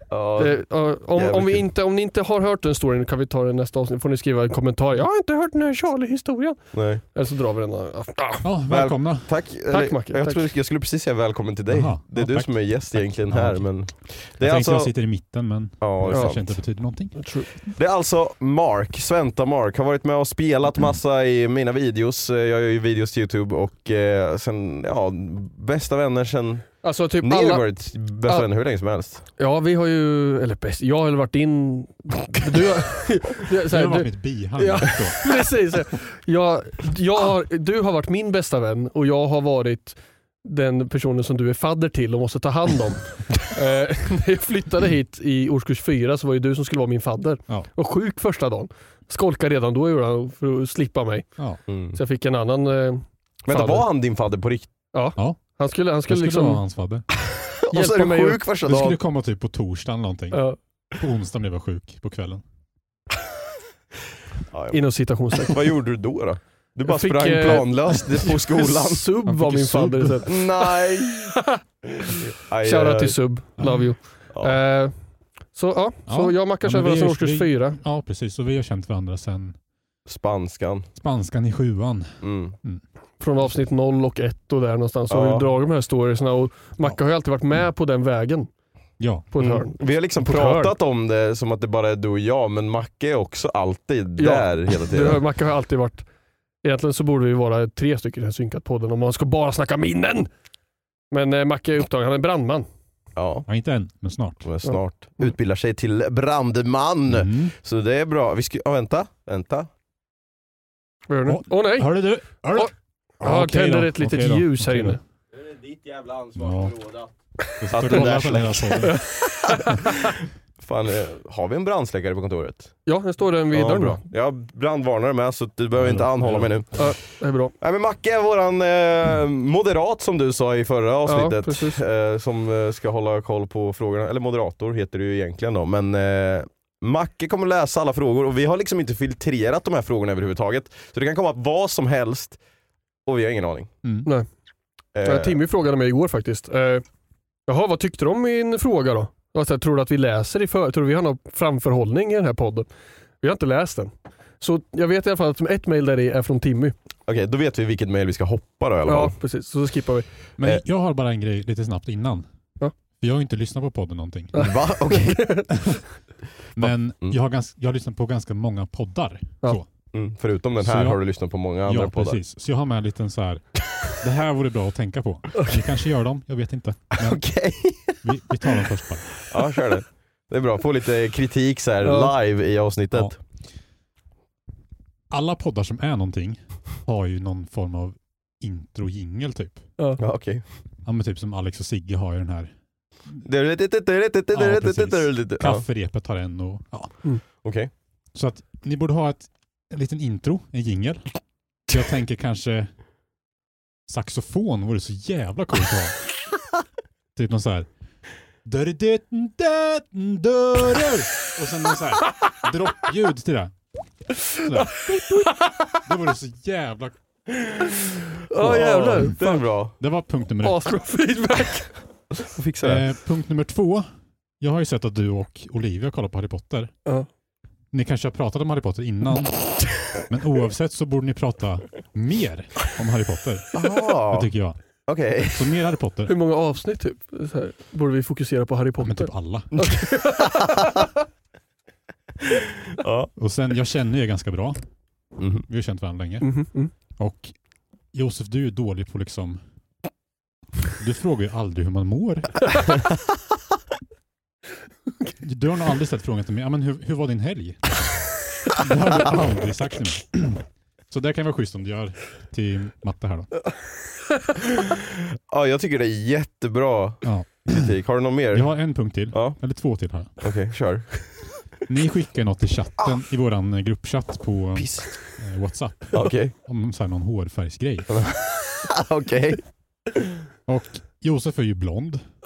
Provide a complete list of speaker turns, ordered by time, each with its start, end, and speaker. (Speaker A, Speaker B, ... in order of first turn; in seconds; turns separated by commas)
Speaker A: 0.1-0.6, Speaker B: 0.4-8.4, Speaker A: 1.1-1.6, Speaker A: 6.7-7.0, Speaker C: 8.4-9.3, Speaker A: 8.7-14.9, Speaker B: 9.7-10.4, Speaker C: 11.7-17.2, Speaker A: 15.8-16.6, Speaker B: 17.1-17.5, Speaker A: 17.7-29.2, Speaker B: 26.8-27.7, Speaker B: 29.4-51.3, Speaker C: 33.7-35.4, Speaker A: 51.7-52.0, Speaker B: 51.9-53.8, Speaker A: 53.4-54.7, Speaker B: 54.9-56.6, Speaker C: 56.1-57.0, Speaker A: 57.5-59.0, Speaker B: 57.7-58.4, Speaker C: 58.6-60.4, Speaker B: 60.3-60.6, Speaker C: 60.9-62.4, Speaker A: 64.5-64.8, Speaker B: 64.7-65.6, Speaker A: 65.4-69.0, Speaker B: 66.8-70.4, Speaker C: 69.2-70.3, Speaker A: 70.2-71.3, Speaker A: 72.1-73.2, Speaker B: 72.6-74.9, Speaker C: 73.6-73.9, Speaker A: 74.3-74.6, Speaker B: 75.5-77.8, Speaker C: 76.1-79.6, Speaker A: 80.1-80.9, Speaker C: 81.0-82.8, Speaker A: 82.2-82.6, Speaker B: 83.2-88.5, Speaker A: 85.1-85.5, Speaker C: 89.0-89.3, Speaker B: 89.3-90.7, Speaker A: 89.4-95.2, Speaker B: 94.2-96.0, Speaker B: 96.6-100.3, Speaker B: 101.1-102.7, Speaker A: 103.2-103.5, Speaker C: 103.5-104.5, Speaker A: 104.4-109.7, Speaker B: 104.6-105.3, Speaker C: 107.1-107.5, Speaker B: 111.1-111.9, Speaker C: 111.3-115.0, Speaker B: 113.2-115.0, Speaker A: 115.3-117.1, Speaker C: 116.4-116.8, Speaker C: 117.6-119.0, Speaker A: 117.7-119.0, Speaker B: 118.8-119.7, Speaker A: 120.6-122.7, Speaker B: 122.8-124.0, Speaker A: 123.5-126.8, Speaker C: 125.8-126.7, Speaker B: 126.7-127.5, Speaker A: 127.6-142.4, Speaker B: 131.1-131.8, Speaker A: 143.1-143.7, Speaker A: 144.9-145.4, Speaker B: 145.0-146.8, Speaker B: 147.5-152.7, Speaker B: 153.2-156.8, Speaker A: 157.1-159.2, Speaker B: 158.8-160.1, Speaker C: 160.4-162.3, Speaker C: 163.0-164.4, Speaker B: 164.3-165.6, Speaker A: 164.3-165.4, Speaker C: 166.6-169.7, Speaker A: 166.6-167.2, Speaker A: 169.9-172.2, Speaker C: 170.6-171.0, Speaker C: 171.6-177.2, Speaker A: 177.0-178.0, Speaker C: 178.0-179.2, Speaker A: 179.2-183.2, Speaker B: 181.8-182.1, Speaker C: 185.1-189.7, Speaker A: 190.0-190.4, Speaker C: 190.8-192.5, Speaker A: 193.2-195.6, Speaker C: 194.3-196.9, Speaker A: 197.4-197.7, Speaker C: 198.1-201.1, Speaker C: 201.7-202.7, Speaker C: 203.9-206.0, Speaker C: 207.1-207.7, Speaker C: 208.4-213.5, Speaker C: 214.3-214.8, Speaker B: 214.9-215.5, Speaker C: 215.8-216.9, Speaker A: 217.3-219.7, Speaker B: 218.3-219.4, Speaker C: 218.4-219.2, Speaker C: 219.8-220.7, Speaker B: 220.4-221.7, Speaker A: 222.1-222.8, Speaker C: 222.6-223.9, Speaker C: 224.4-226.7, Speaker C: 227.7-234.6, Speaker A: 233.5-234.3, Speaker A: 234.9-235.4, Speaker C: 235.2-236.1, Speaker B: 236.1-240.8, Speaker C: 238.8-239.6, Speaker A: 242.4-243.1, Speaker C: 243.2-244.6, Speaker A: 245.2-245.4, Speaker C: 245.5-246.4, Speaker B: 246.2-246.7, Speaker C: 247.0-247.3, Speaker C: 247.9-249.4, Speaker C: 250.8-252.6, Speaker C: 255.2-257.8, Speaker C: 258.5-263.4, Speaker A: 264.5-268.5, Speaker C: 267.0-267.7, Speaker C: 268.3-270.2, Speaker A: 269.1-269.4, Speaker A: 270.2-271.2, Speaker C: 271.7-277.9, Speaker A: 274.5-274.9, Speaker A: 275.9-276.3, Speaker A: 277.9-279.4, Speaker C: 280.5-282.0